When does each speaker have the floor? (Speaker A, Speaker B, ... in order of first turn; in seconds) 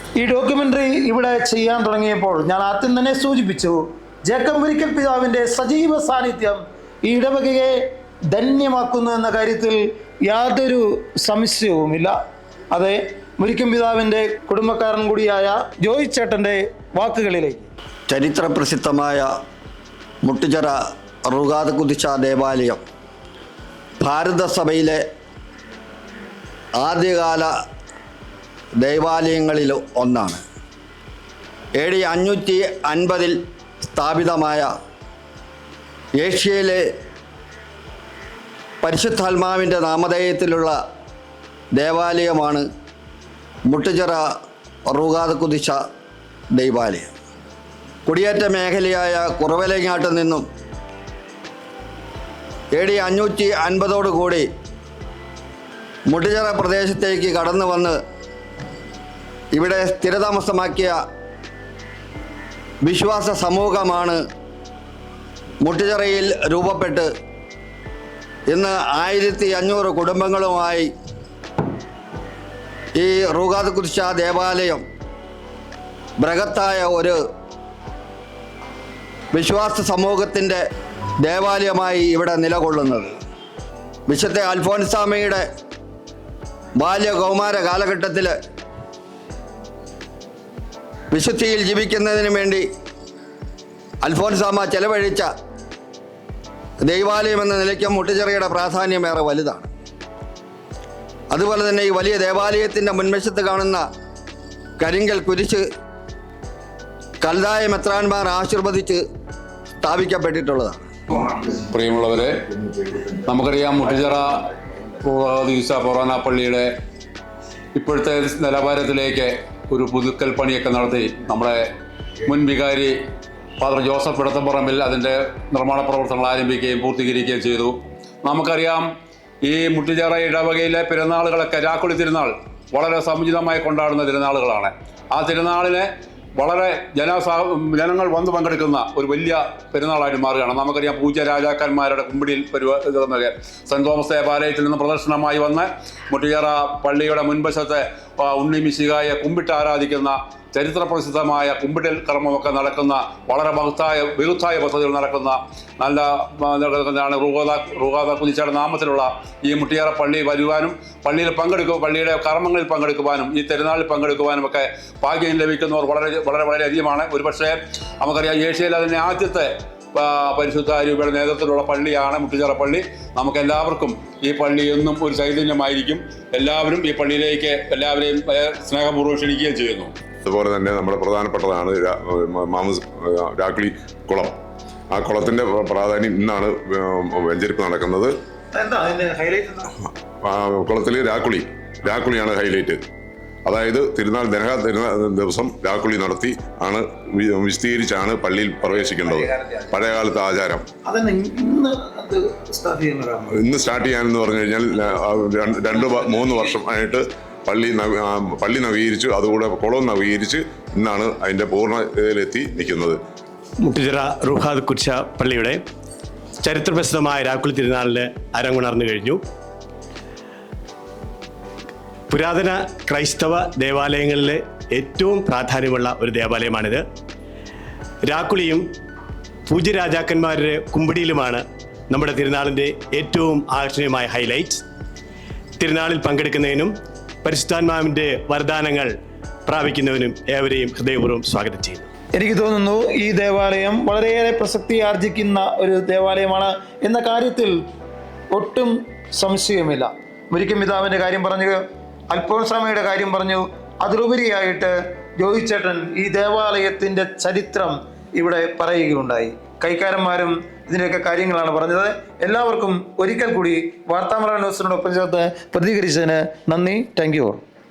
Speaker A: 0.2-12.2, 12.7-17.7, 188.5-189.7, 198.7-199.7, 200.9-203.4, 205.6-206.6, 242.2-247.6, 248.3-267.4
Speaker B: 18.1-19.3, 20.2-20.8, 21.3-22.8, 24.0-25.0, 26.8-27.5, 28.8-30.4, 31.8-34.7, 36.2-36.9, 38.8-40.8, 41.8-42.7, 43.7-44.3, 44.9-45.8, 46.5-47.1, 48.1-50.5, 52.7-54.5, 56.1-58.0, 59.5-61.0, 62.8-64.2, 65.6-67.1, 68.5-70.9, 73.0-74.8, 76.2-77.2, 79.3-80.6, 81.2-83.1, 84.1-85.5, 86.8-88.3, 91.1-92.7, 94.0-95.3, 96.8-99.7, 101.3-103.8, 104.8-105.7, 107.2-109.0, 109.8-110.9
Speaker C: 111.4-112.3, 113.1-114.5, 115.0-116.7, 117.8-121.6, 122.3-122.9, 123.6-128.9, 129.4-179.9
Speaker D: 180.2-184.4, 184.9-188.2, 190.2-192.8, 193.4-200.7, 203.4-213.0
Speaker E: 213.6-215.6, 216.4-219.2, 222.1-226.9, 228.0-228.7, 229.5-234.7, 235.6-241.9